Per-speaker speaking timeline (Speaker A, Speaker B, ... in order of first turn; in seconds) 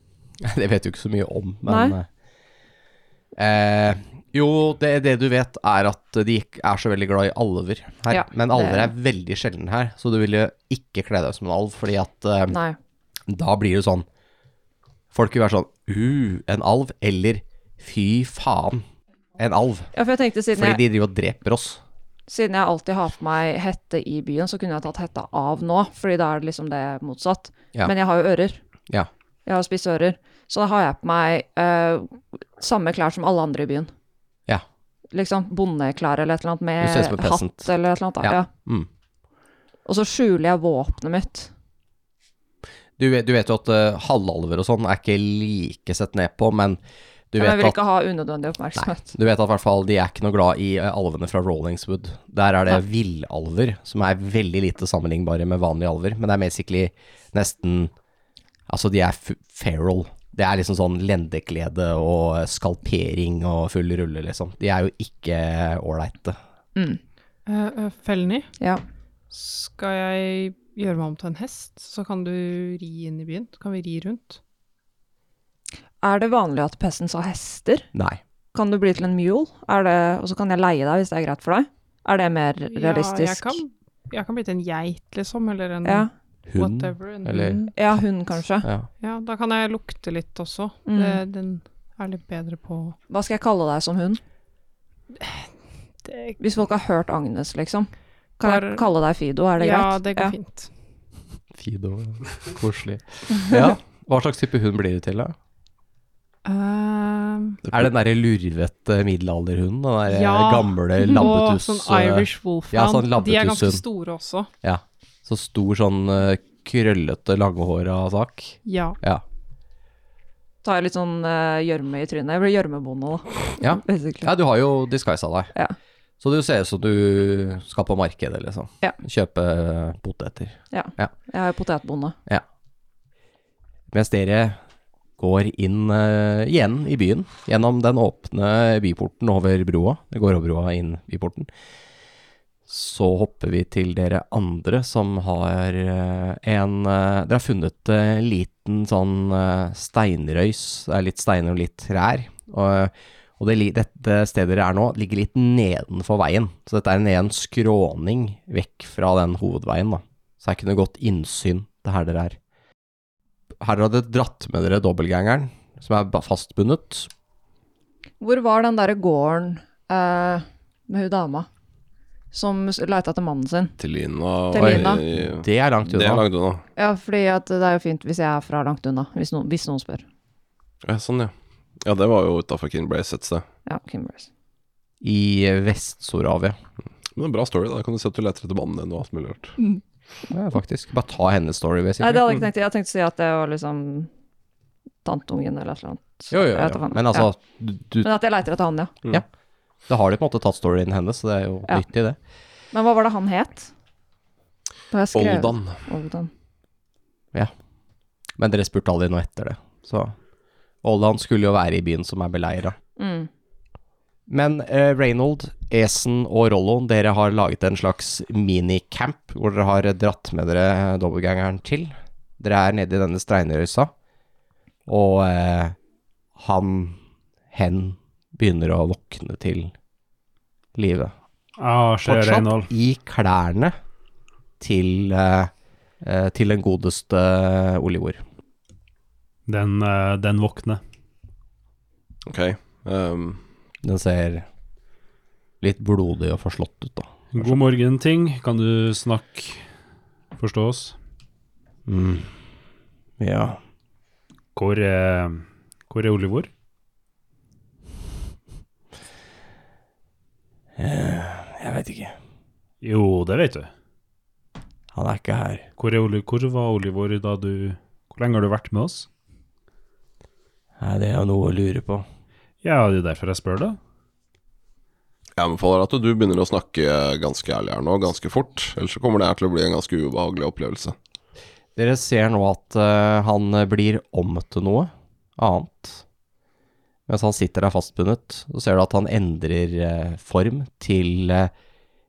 Speaker A: 0.4-2.1, 3.4-12.6, 13.3-14.1, 15.1-18.8, 19.4-19.9, 20.5-21.8, 36.8-38.9, 43.0-46.8, 47.3-47.8, 48.8-57.9, 58.7-66.4, 77.9-78.2, 86.5-88.0, 88.6-88.9, 101.5-105.3, 107.7-113.8, 114.6-119.2, 123.6-125.5, 126.2-131.1, 133.9-134.6, 135.2-141.5, 142.7-162.4, 163.6-167.1, 174.6-176.2, 185.0-186.6, 190.3-192.4, 196.3-198.1, 199.9-202.2, 208.4-210.1, 210.8-212.8, 214.3-223.9, 224.9-225.8, 226.4-227.0, 227.5-229.7, 230.8-231.1, 232.0-233.8, 234.6-235.5, 236.0-238.2, 243.8-244.5, 245.6-247.6, 251.9-252.3, 253.2-253.6, 260.8-262.1, 264.9-265.7, 270.8-272.1, 281.8-286.0, 287.1-291.5
Speaker B: 1.7-1.9, 8.1-8.9, 12.5-12.8, 19.9-20.8, 22.3-28.6, 29.4-33.9, 35.1-38.5, 39.9-41.5, 47.4-49.1, 66.8-67.0, 76.0-77.9, 78.5-83.6, 87.8-88.7, 90.9-91.2, 93.1-94.2, 96.4-100.3, 103.3-103.7, 120.6-124.3, 130.7-132.2, 168.2-171.5, 172.3-173.7, 174.5-175.0, 176.8-180.1, 183.7-184.3, 192.0-194.1, 195.0-197.3, 198.0-199.0, 202.7-203.7, 204.9-206.3, 213.0-213.3
Speaker C: 67.5-68.5, 69.3-74.4, 82.7-87.7, 89.0-93.0, 95.2-95.5, 96.0-96.4, 98.4-98.9, 99.6-100.7, 106.5-107.6, 110.1-114.5, 118.7-119.0
Speaker D: 173.8-176.6, 180.8-183.4, 187.2-189.6, 205.1-205.8, 242.3-243.4, 275.4-281.0
Speaker E: 231.6-232.7, 239.5-240.8, 247.3-249.6, 250.3-251.0, 254.6-256.5, 262.8-263.7, 265.8-269.1, 272.6-273.8